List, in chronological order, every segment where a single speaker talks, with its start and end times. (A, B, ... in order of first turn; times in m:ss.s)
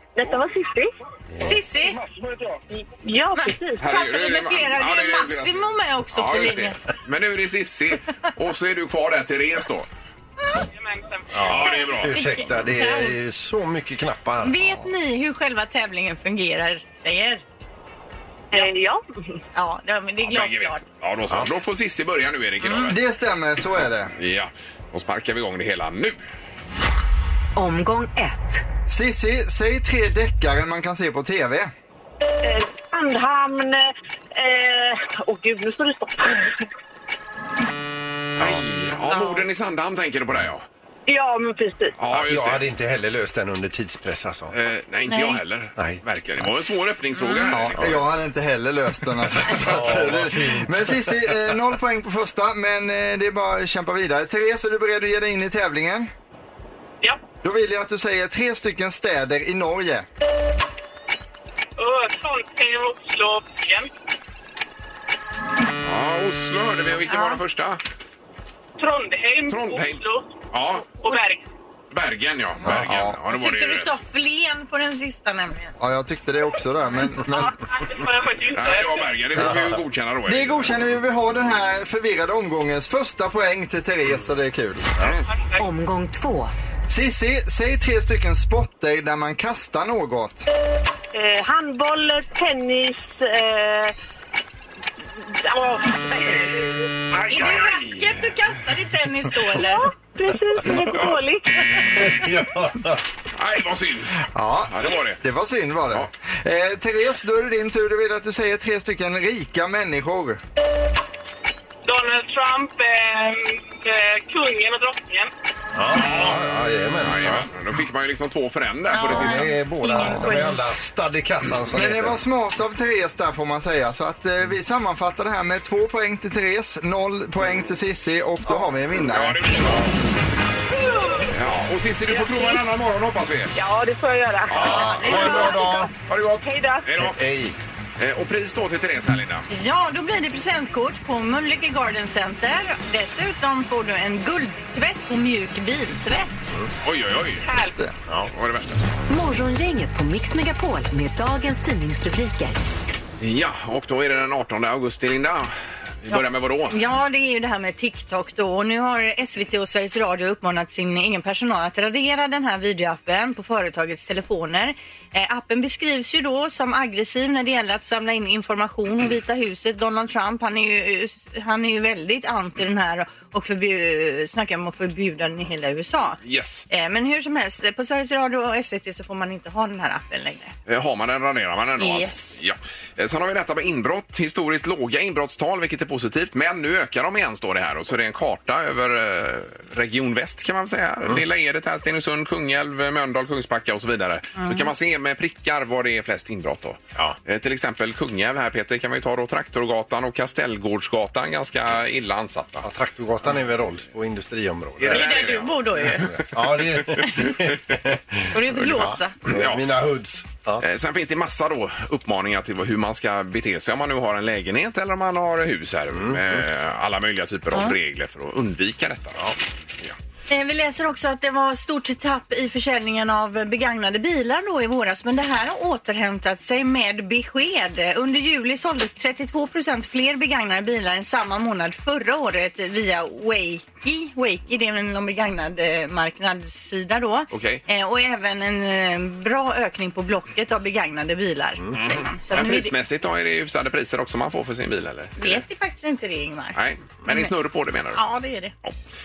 0:00.2-0:00.9 A
0:01.3-0:01.6 B
0:01.4-0:02.0 C
0:02.7-0:03.8 A
0:03.4-0:06.8 C
0:03.8-0:09.9 D
0:10.7-0:11.8 E
0:11.3-0:14.9 B
0:11.4-0:12.1 D
0:12.1-0:13.2 C
0:14.4-0:17.4 C
0:18.5-0:19.4 A
0:19.5-0:20.8 C
0:20.2-0:23.0 D
0:22.7-0:24.1 F
0:24.2-0:26.2 D
0:27.6-0:28.6 G
0:28.9-0:31.7 F
0:32.4-0:36.6 A
0:38.4-0:40.6 D
0:39.1-0:39.4 C
0:41.1-0:42.0 A
0:42.0-0:42.6 D
0:42.1-0:44.5 B
0:44.5-0:48.0 D
0:45.1-0:45.4 C
0:45.8-0:46.0 B
0:47.5-0:48.0 B
0:47.7-0:56.1 F
0:49.3-0:51.5 B
0:57.4-1:00.1 F
1:01.8-1:03.9 E
1:05.8-1:07.8 D
1:07.1-1:07.4 C
1:08.8-1:10.3 E
1:09.5-1:10.9 D
1:11.0-1:11.4 E
1:11.9-1:14.0 D
1:12.6-1:13.1 B
1:13.2-1:15.7 C
1:15.8-1:17.6 F
1:17.3-1:19.2 E
1:18.5-1:20.8 D
1:19.4-1:19.8 B
1:20.3-1:24.9 F
1:25.3-1:25.7 E
1:25.6-1:26.5 G
1:26.9-1:30.5 F
1:31.1-1:33.9 A
1:35.2-1:36.9 A
1:37.1-1:38.3 D
1:37.3-1:39.9 C
1:39.6-1:42.2 A
1:41.9-1:43.0 B
1:43.4-1:45.2 D
1:44.3-1:50.4 F
1:51.8-1:55.3 E
1:55.7-1:57.5 B
1:55.9-1:56.4 D
1:57.0-1:59.5 D
1:58.9-2:00.6 C
1:59.0-2:02.2 B
2:01.7-2:09.5 F
2:09.1-2:10.0 D
2:11.3-2:13.5 D
2:12.1-2:12.6 A
2:13.5-2:15.9 A
2:14.5-2:17.2 D
2:14.6-2:15.7 C
2:14.7-2:15.9 B
2:16.4-2:16.9 A
2:17.0-2:17.6 B
2:18.0-2:19.5 D
2:19.5-2:26.5 C
2:26.8-2:27.4 D
2:27.4-2:27.8 E
2:28.1-2:28.3 B
2:28.3-2:28.8 D
2:29.1-2:32.6 G
2:33.2-2:36.8 D
2:36.1-3:00.5 C
2:56.2-2:56.7 D
3:00.7-3:22.6 D
3:01.8-3:02.4 C
3:14.4-3:14.7 C
3:22.6-3:30.6 B
3:24.8-3:26.1 D
3:24.9-3:26.1 C
3:27.0-3:27.4 D
3:28.3-3:29.1 C
3:29.2-3:29.6 D
3:30.6-3:40.0 D
3:35.9-3:36.4 B
3:40.3-4:02.7 C
3:57.3-3:57.6 D
4:01.7-4:05.4 D
4:05.2-4:07.3 C
4:06.5-4:08.0 D
4:07.9-4:08.5 C